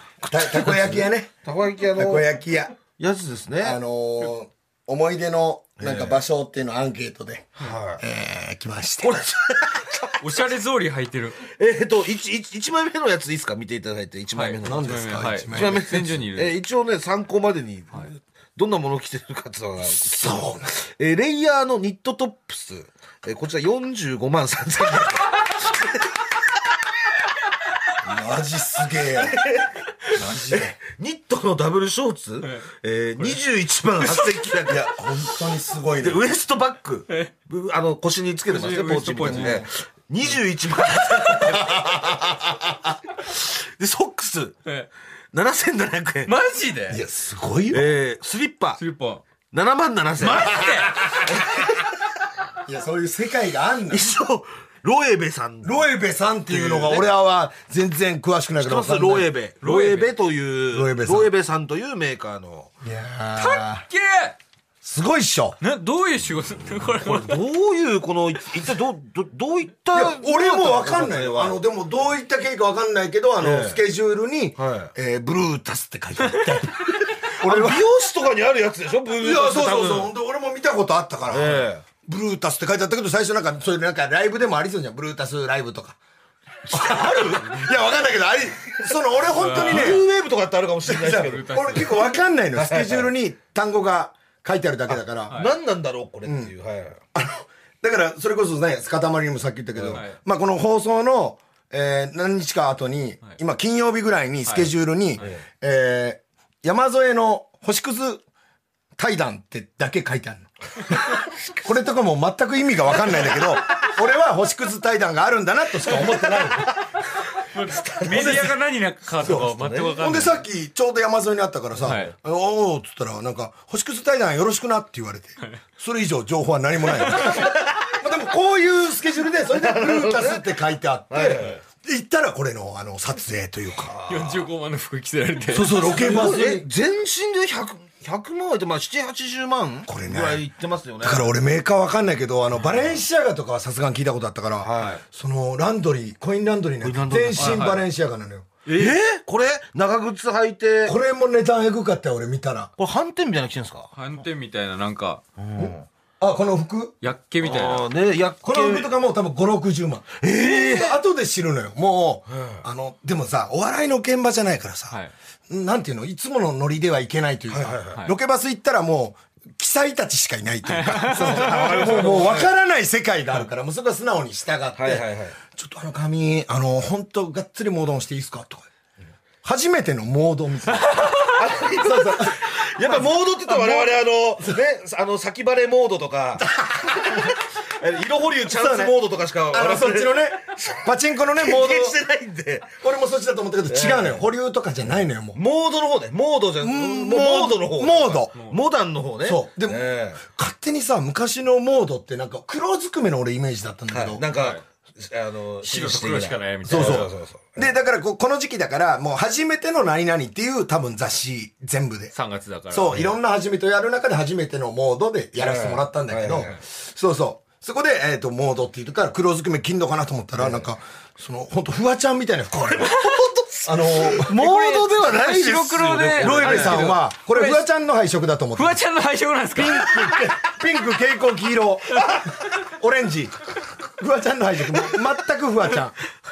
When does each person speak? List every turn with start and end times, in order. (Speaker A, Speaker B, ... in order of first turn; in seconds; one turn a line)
Speaker A: 0.2-2.3
Speaker B: 0.3-1.3
Speaker B: 1.9-2.8
Speaker A: 3.0-3.8
Speaker B: 3.6-9.2
Speaker A: 5.8-6.2
Speaker A: 7.6-8.0
Speaker A: 9.0-10.2
Speaker C: 10.2-11.4
Speaker A: 11.4-15.0
Speaker C: 14.3-16.6
Speaker B: 14.6-15.9
Speaker A: 15.5-26.1
Speaker B: 20.0-20.8
Speaker B: 28.0-29.4
Speaker A: 29.1-29.7
Speaker B: 30.1-30.8
Speaker A: 30.5-35.0
Speaker B: 34.6-36.2
Speaker A: 36.0-42.2
Speaker C: 38.5-39.7
Speaker B: 39.3-39.7
Speaker C: 41.0-41.3
Speaker B: 41.4-42.9
Speaker A: 43.2-44.6
Speaker A: 45.3-46.3
Speaker C: 46.3-47.0
Speaker B: 46.9-47.9
Speaker A: 47.7-48.8
Speaker C: 48.8-49.2
Speaker A: 49.5-51.7
Speaker C: 50.2-51.2
Speaker B: 50.5-51.5
Speaker B: 52.6-54.1
Speaker A: 53.9-55.9
Speaker B: 55.6-59.3
Speaker A: 56.5-57.1
Speaker A: 58.6-62.7
Speaker C: 59.6-60.1
Speaker B: 60.7-61.3
Speaker B: 62.8-63.9
Speaker C: 63.4-64.4
Speaker B: 64.8-65.6
Speaker C: 65.6-67.4
Speaker A: 67.0-71.6
Speaker B: 69.9-77.8
Speaker A: 73.4-73.8
Speaker A: 74.6-74.9
Speaker A: 77.1-80.1
Speaker B: 79.2-86.0
Speaker A: 81.3-81.8
Speaker A: 86.7-87.7
Speaker B: 86.7-90.1
Speaker A: 88.8-93.1
Speaker C: 89.3-90.0
Speaker B: 90.9-95.4
Speaker C: 91.1-92.0
Speaker A: 94.9-97.0
Speaker C: 95.3-95.5
Speaker B: 96.3-96.5
Speaker B: 97.2-108.2
Speaker A: 99.8-100.0
Speaker C: 99.9-100.2
Speaker C: 104.5-105.3
Speaker B: 109.0-111.1
Speaker B: 111.6-116.8
Speaker A: 113.1-113.5
Speaker A: 115.9-116.8
Speaker C: 117.5-120.4
Speaker A: 117.6-118.5
Speaker B: 118.0-118.5
Speaker B: 119.2-133.9
Speaker A: 119.3-120.1
Speaker C: 121.8-122.1
Speaker C: 127.1-127.4
Speaker A: 127.1-128.0
Speaker A: 129.5-130.5
Speaker A: 131.1-131.6
Speaker A: 133.8-134.5
Speaker C: 134.1-136.0
Speaker B: 135.5-136.7
Speaker A: 135.8-141.3
Speaker B: 139.9-140.4
Speaker B: 141.0-148.5
Speaker A: 142.7-142.9
Speaker A: 144.6-145.0
Speaker A: 146.8-147.8
Speaker C: 147.4-147.8
Speaker C: 148.7-148.9
Speaker A: 148.7-151.0
Speaker B: 150.9-152.7
Speaker A: 152.8-153.9
Speaker C: 153.9-155.2
Speaker A: 155.4-155.9
Speaker B: 155.6-157.0
Speaker C: 157.0-157.9
Speaker A: 157.4-158.9
Speaker B: 158.4-165.0
Speaker A: 160.2-161.0
Speaker A: 162.3-162.6
Speaker B: 165.5-178.7
Speaker A: 167.5-168.0
Speaker C: 170.7-172.2
Speaker A: 171.2-172.5
Speaker A: 174.8-175.4
Speaker B: 179.4-184.6
Speaker C: 180.8-181.3
Speaker A: 181.2-192.8
Speaker B: 186.4-187.4
Speaker B: 188.5-188.9
Speaker B: 189.5-192.0
Speaker B: 192.8-195.4
Speaker A: 193.7-194.3
Speaker A: 195.3-200.2
Speaker B: 196.6-198.3
Speaker B: 199.2-204.2
Speaker A: 203.9-207.7
Speaker C: 204.3-204.6
Speaker C: 205.6-207.1
Speaker B: 206.7-212.1
Speaker C: 212.1-213.0
Speaker B: 212.7-222.9
Speaker A: 215.4-216.6
Speaker A: 220.4-220.7
Speaker A: 222.6-227.0
Speaker C: 222.9-223.2
Speaker B: 223.7-224.3
Speaker C: 224.2-227.7
Speaker B: 226.2-228.8
Speaker C: 228.6-230.2
Speaker B: 229.6-236.0
Speaker C: 232.0-232.2